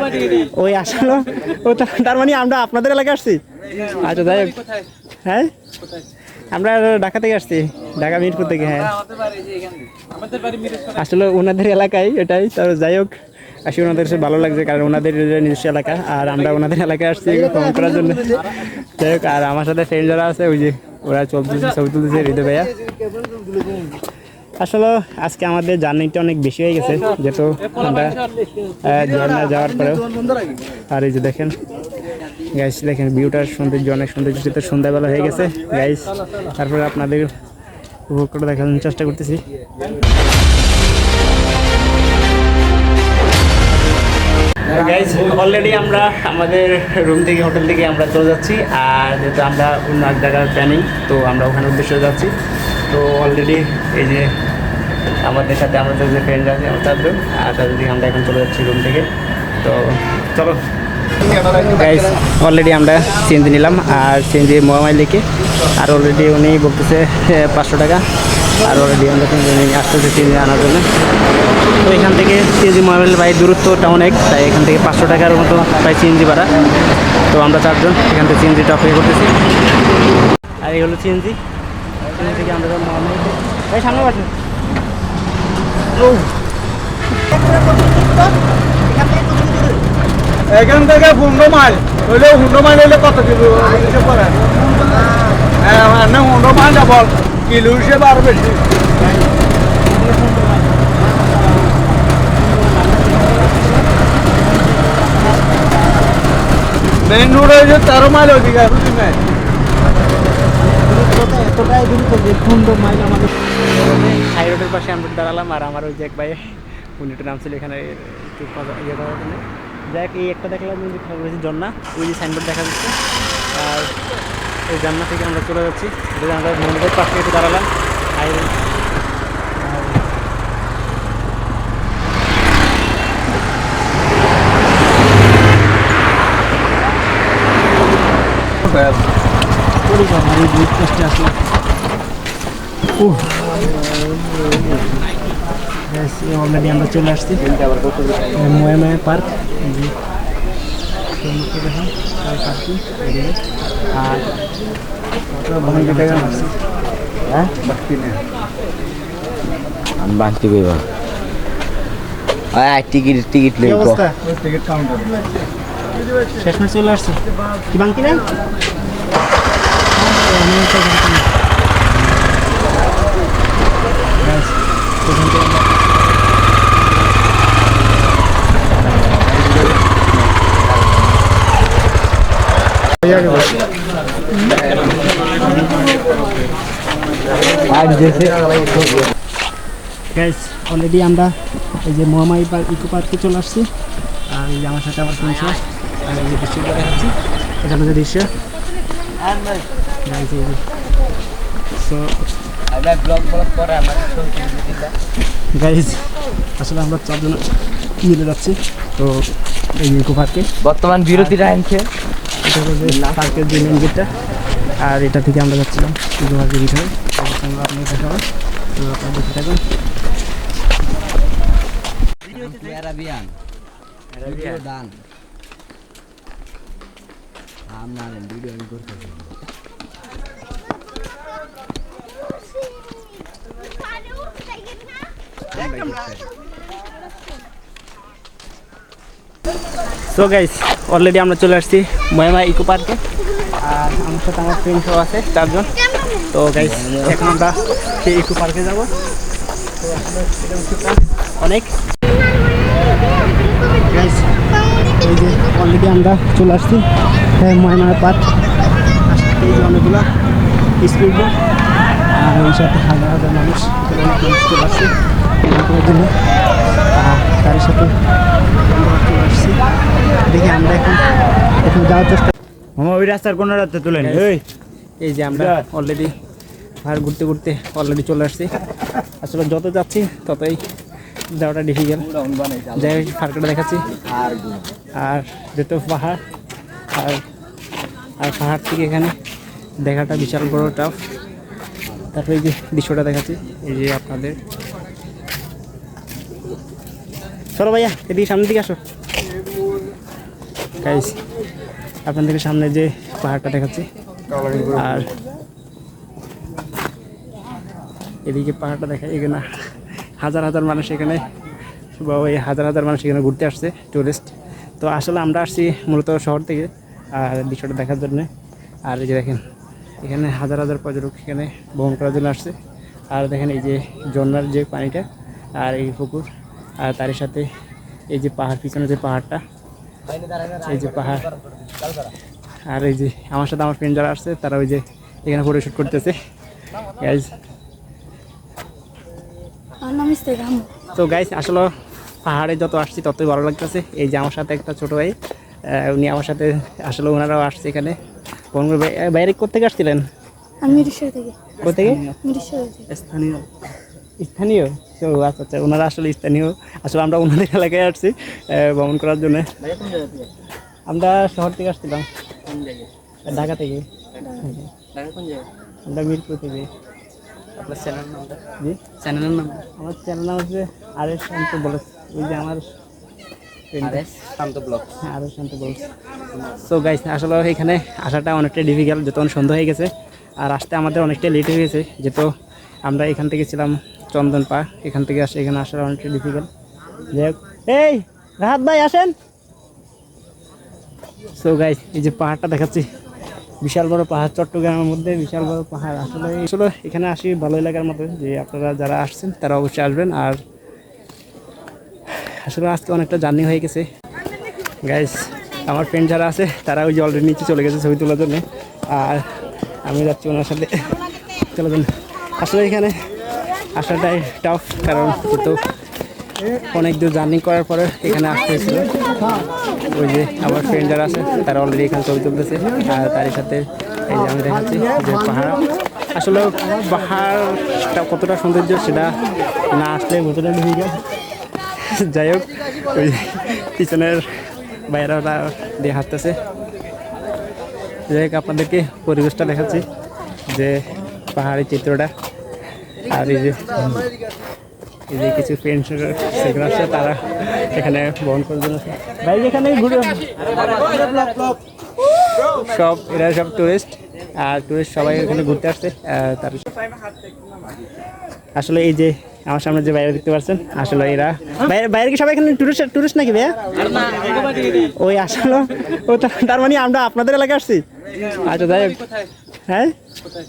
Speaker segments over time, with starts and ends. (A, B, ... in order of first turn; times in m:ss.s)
0:00.2-0:04.6 A
0:06.5-0:08.9 A
0:10.9-0:13.1 A
0:13.6-0:22.7 A
0:24.6-0:28.2 A
0:28.8-0:30.1 A
0:30.9-0:31.6 A
0:32.5-0:37.3 A
0:38.1-0:39.4 A
0:44.7-0:52.3 A
0:52.9-0:54.3 A
0:55.2-0:59.1 A
0:59.6-1:00.6 A
1:01.4-1:05.2 A
1:05.8-1:08.0 A
1:08.6-1:10.8 A
1:11.8-1:16.5 A
1:17.3-1:19.3 A
1:20.6-1:21.4 A
1:22.0-1:24.3 A
1:26.0-1:26.3 A
1:27.3-1:28.3 A
1:28.8-1:29.8 A
1:30.5-1:34.4 B
1:35.6-1:38.6 B
1:39.0-1:39.3 A
1:39.8-1:43.8 A
1:44.4-1:46.0 A
1:47.1-1:49.2 B
1:47.1-1:48.1 A
1:50.6-1:59.4 A
1:59.9-2:02.9 A
2:03.6-2:03.9 A
2:04.7-2:07.7 A
2:08.2-2:08.5 A
2:09.6-2:10.0 A
2:19.8-2:21.3 A
2:23.0-2:23.3 A
2:24.5-2:24.9 A
2:25.9-2:27.4 A
2:28.3-2:29.9 A
2:31.2-2:33.4 A
2:33.9-2:34.3 A
2:35.4-2:36.5 A
2:35.8-2:36.3 B
2:37.6-2:38.2 B
2:40.0-2:40.8 C
2:42.5-2:44.0 C
2:43.6-2:44.2 A
2:44.5-2:45.0 B
2:46.4-2:47.2 A
2:47.7-2:48.2 A
2:49.9-2:51.3 A
2:54.2-2:55.7 A
2:58.8-2:59.3 A
3:03.0-3:03.5 A
3:07.7-3:09.0 C
3:10.1-3:11.3 A
3:11.8-3:13.7 A
3:14.3-3:18.3 A
3:20.0-3:20.6 A
3:21.8-3:22.1 A
3:22.7-3:24.9 C
3:25.5-3:27.4 A
3:28.0-3:30.5 A
3:30.6-3:31.9 C
3:31.1-3:31.4 A
3:32.4-3:34.1 A
3:34.8-3:39.6 A
3:42.2-3:43.4 C
3:44.2-3:45.0 C
3:47.7-3:49.3 C
3:55.5-3:56.2 C
4:00.1-4:03.0 A
4:03.6-4:05.7 A
4:06.3-4:08.9 A
4:06.8-4:07.2 C
4:11.4-4:11.7 A
4:13.9-4:14.3 A
4:14.9-4:16.8 A
4:17.4-4:18.3 A
4:19.1-4:20.1 A
4:20.8-4:21.3 A
4:22.1-4:24.9 A
4:25.4-4:26.1 A
4:27.0-4:27.9 A
4:28.7-4:29.6 A
4:30.3-4:31.0 A
4:31.6-4:32.3 A
4:32.8-4:34.3 B
4:33.9-4:34.4 A
4:35.0-4:36.1 A
4:36.8-4:38.5 A
4:39.2-4:40.6 A
4:41.3-4:42.1 A
4:42.2-4:42.8 C
4:42.7-4:43.8 A
4:44.0-4:44.7 C
4:45.0-4:46.2 A
4:46.9-4:47.2 A
4:48.2-4:49.1 A
4:49.8-4:51.0 A
4:52.1-4:54.4 A
4:57.5-4:58.8 A
5:00.8-5:01.2 A
5:02.0-5:03.9 A
5:04.5-5:05.1 A
5:08.2-5:09.4 A
5:10.2-5:11.3 A
5:12.0-5:18.3 A
5:18.8-5:19.4 A
5:20.0-5:22.5 A
5:23.1-5:25.0 A
5:25.6-5:26.2 A
5:26.8-5:27.4 A
5:28.1-5:29.4 A
5:30.1-5:30.6 C
5:30.6-5:31.3 A
5:31.6-5:32.1 C
5:32.7-5:36.1 A
5:37.0-5:37.3 A
5:39.8-5:40.7 D
5:40.9-5:41.7 A
5:42.2-5:45.1 A
5:45.7-5:48.0 A
5:48.5-5:50.0 A
5:50.6-5:52.9 D
5:51.6-5:52.1 A
5:53.0-5:53.4 B
5:54.2-5:59.5 A
5:59.8-6:00.2 C
6:00.9-6:02.1 A
6:03.2-6:04.7 A
6:04.9-6:05.4 C
6:05.8-6:06.7 A
6:07.6-6:08.4 C
6:08.6-6:08.8 A
6:09.0-6:09.6 C
6:09.6-6:12.7 A
6:13.7-6:14.0 A
6:13.8-6:14.8 C
6:15.0-6:15.8 A
6:16.5-6:22.3 A
6:22.8-6:26.5 A
6:27.1-6:29.1 A
6:31.4-6:32.9 A
6:33.6-6:40.4 A
6:42.4-6:43.9 A
6:44.8-6:49.2 A
6:49.8-6:51.0 A
6:51.5-6:52.9 A
6:53.8-6:55.6 A
6:56.7-6:58.9 A
6:59.9-7:09.1 A
7:09.7-7:11.0 A
7:11.8-7:14.2 A
7:14.9-7:16.4 A
7:18.1-7:19.8 A
7:20.5-7:20.8 A
7:21.3-7:22.1 A
7:23.1-7:23.9 A
7:25.1-7:31.5 A
7:32.3-7:36.6 A
7:38.6-7:49.0 A
7:49.7-7:49.9 A